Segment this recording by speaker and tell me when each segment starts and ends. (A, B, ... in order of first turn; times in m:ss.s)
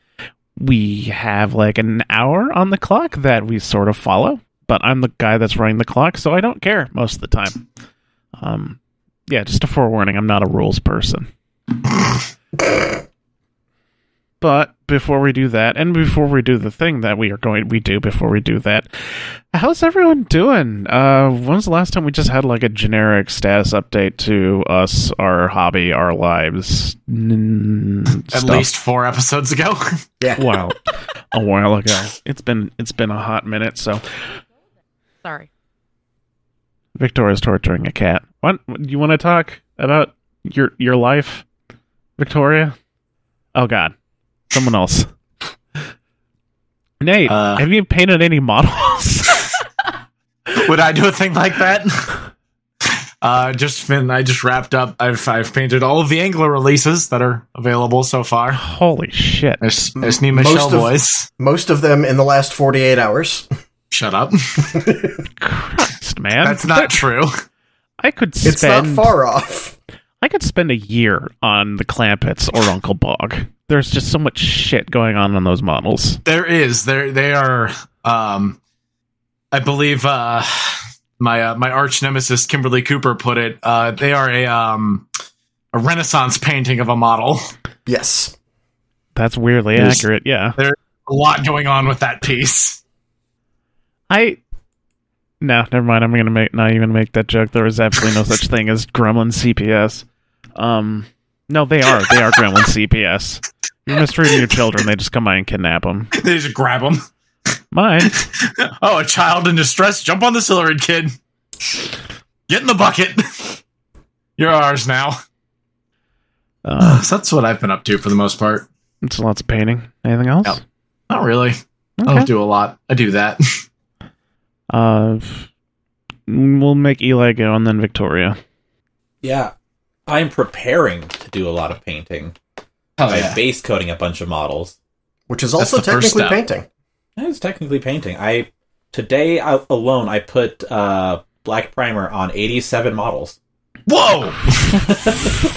0:00.6-0:07.6 A
0:08.4-0:11.3 A
0:14.4-0:18.9 A
0:19.5-0:28.7 A
0:28.3-0:30.0 B
0:30.4-0:30.8 A
0:31.3-0:34.0 A
0:37.0-0:41.4 A
0:42.2-0:42.8 A
0:43.6-0:43.9 A
0:44.5-0:45.1 A
0:47.0-0:49.5 A
0:47.3-0:47.6 B
0:50.5-0:52.2 B
0:53.2-0:58.6 B
0:58.6-0:59.9 A
0:59.6-1:01.3 B
1:00.0-1:03.5 C
1:03.9-1:04.7 B
1:04.7-1:05.2 C
1:05.4-1:07.0 A
1:06.4-1:07.3 B
1:08.0-1:09.1 A
1:08.4-1:09.8 C
1:10.2-1:16.2 A
1:16.2-1:18.6 B
1:19.5-1:25.1 B
1:25.7-1:27.5 B
1:27.9-1:28.4 C
1:29.2-1:30.6 A
1:29.8-1:30.0 B
1:30.6-1:32.8 B
1:34.1-1:34.4 A
1:35.4-1:46.1 A
1:46.2-1:47.0 B
1:47.7-1:48.2 A
1:48.1-1:51.1 B
1:52.5-1:53.6 B
1:54.4-1:55.2 B
1:56.6-1:57.0 A
1:56.8-1:58.7 B
1:59.0-2:00.6 A
2:01.1-2:03.6 B
2:02.0-2:02.3 A
2:04.7-2:05.5 A
2:06.3-2:08.4 A
2:09.2-2:09.5 D
2:10.1-2:12.4 D
2:13.0-2:13.4 B
2:13.1-2:14.8 D
2:15.3-2:16.7 C
2:15.6-2:16.4 B
2:17.2-2:23.4 D
2:23.9-2:24.8 B